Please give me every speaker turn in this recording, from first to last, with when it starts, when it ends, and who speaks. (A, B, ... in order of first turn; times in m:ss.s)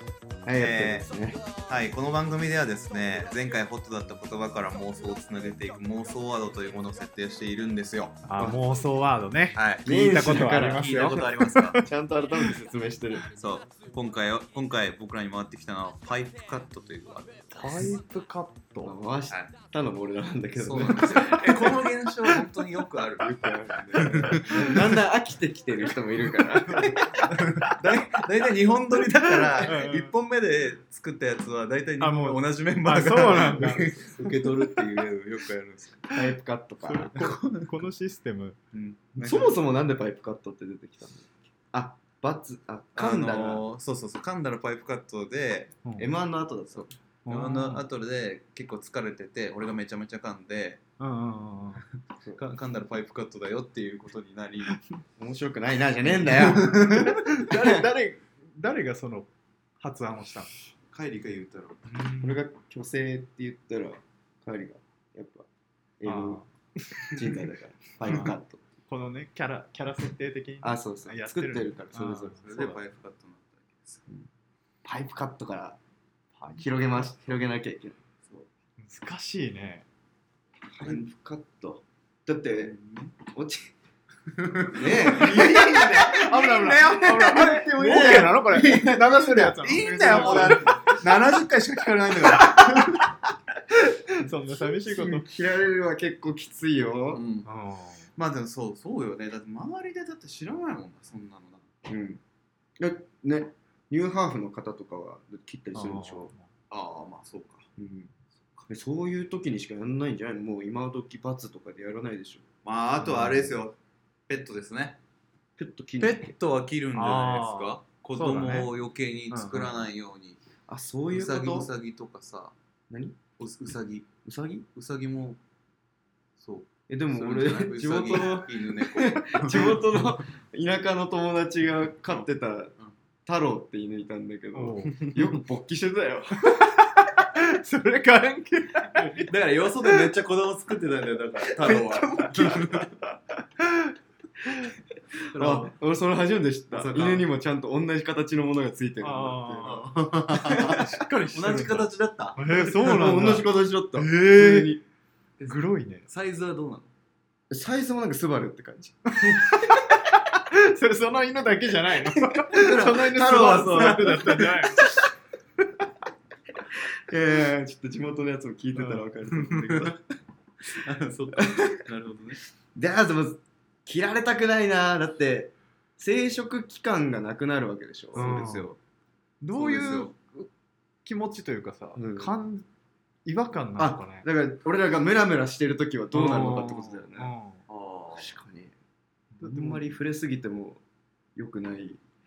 0:00.4-0:01.4 A
0:00.6-0:08.2 B
0:08.2-0:11.9 C
0:09.5-0:09.8 B
0:09.8-0:11.1 A
0:10.4-0:11.8 B
0:11.8-0:13.3 A
0:13.3-0:17.9 B
0:17.5-0:18.9 C
0:18.8-0:21.7 A
0:19.3-0:19.5 B
0:20.6-0:23.3 B
0:20.8-0:21.7 C
0:23.2-0:27.2 A
0:23.9-0:24.9 B
0:24.1-0:24.5 C
0:26.8-0:27.8 C
0:27.3-0:36.1 B
0:29.4-0:30.1 C
0:32.0-0:34.3 C
0:36.1-0:37.2 A
0:36.8-0:38.6 C
0:37.1-0:37.7 B
0:38.7-0:39.5 B
0:39.2-0:43.6 A
0:43.0-0:45.8 B
0:45.8-0:46.1 C
0:46.0-0:46.9 A
0:46.7-0:50.8 B
0:47.2-0:47.8 C
0:51.0-0:51.8 C
0:52.3-0:54.8 B
0:55.2-0:57.8 A
0:56.2-0:57.1 B
0:56.9-1:00.5 C
1:00.9-1:01.9 B
1:01.9-1:02.4 C
1:02.2-1:05.5 A
1:06.0-1:06.4 A
1:06.0-1:07.2 C
1:07.0-1:08.6 A
1:08.0-1:08.3 B
1:08.1-1:08.3 C
1:08.9-1:12.8 C
1:10.6-1:12.6 A
1:12.4-1:14.0 B
1:14.8-1:15.8 A
1:16.4-1:16.6 C
1:16.6-1:18.0 A
1:18.8-1:19.8 C
1:20.7-1:23.7 A
1:22.6-1:23.1 B
1:24.3-1:33.1 B
1:24.7-1:29.5 A
1:25.2-1:31.0 C
1:30.1-1:30.9 A
1:32.4-1:32.8 A
1:34.1-1:35.2 C
1:34.8-1:37.2 A
1:37.1-1:37.5 B
1:37.4-1:38.0 C
1:38.2-1:41.6 B
1:41.8-1:42.2 A
1:42.8-1:46.3 A
1:45.7-1:46.4 C
1:46.7-1:47.7 B
1:47.8-1:48.1 A
1:48.7-1:52.4 A
1:52.6-1:53.8 B
1:53.0-1:53.5 C
1:54.3-1:55.0 B
1:55.6-1:56.3 A
1:56.0-2:00.4 B
1:56.9-1:58.7 C
1:59.3-1:59.8 C
2:00.7-2:01.7 A
2:01.1-2:02.5 B
2:02.9-2:03.2 A
2:03.4-2:04.1 B
2:04.2-2:04.6 A
2:04.7-2:05.4 B
2:06.4-2:09.8 B
2:06.9-2:12.7 A
2:13.2-2:16.8 A
2:14.5-2:15.1 C
2:17.0-2:19.3 C
2:19.0-2:22.9 B
2:21.6-2:22.9 A
2:25.3-2:25.7 B
2:25.3-2:29.8 A
2:26.7-2:27.2 B
2:29.0-2:29.9 C
2:29.6-2:32.7 B
2:30.3-2:30.8 A
2:30.5-2:34.7 C
2:32.6-2:34.8 A
2:35.4-2:36.9 B
2:35.4-2:36.0 C
2:37.5-2:39.6 A
2:39.2-2:45.0 C
2:42.5-2:44.2 A
2:42.5-2:44.6 B
2:46.7-2:50.0 A
2:48.7-2:49.1 C
2:49.3-2:50.0 B
2:50.7-2:52.4 B
2:51.3-2:51.8 A
2:52.8-2:58.4 A
2:58.1-2:58.8 B
2:58.1-2:58.7 C
2:59.4-3:00.5 C
2:59.5-3:00.1 B
3:01.0-3:02.6 C
3:02.0-3:02.3 A
3:03.2-3:04.2 C
3:03.8-3:07.3 A
3:06.1-3:07.6 C
3:07.7-3:08.3 B
3:08.2-3:08.7 A
3:09.4-3:09.9 C
3:09.4-3:10.8 A
3:11.4-3:12.0 A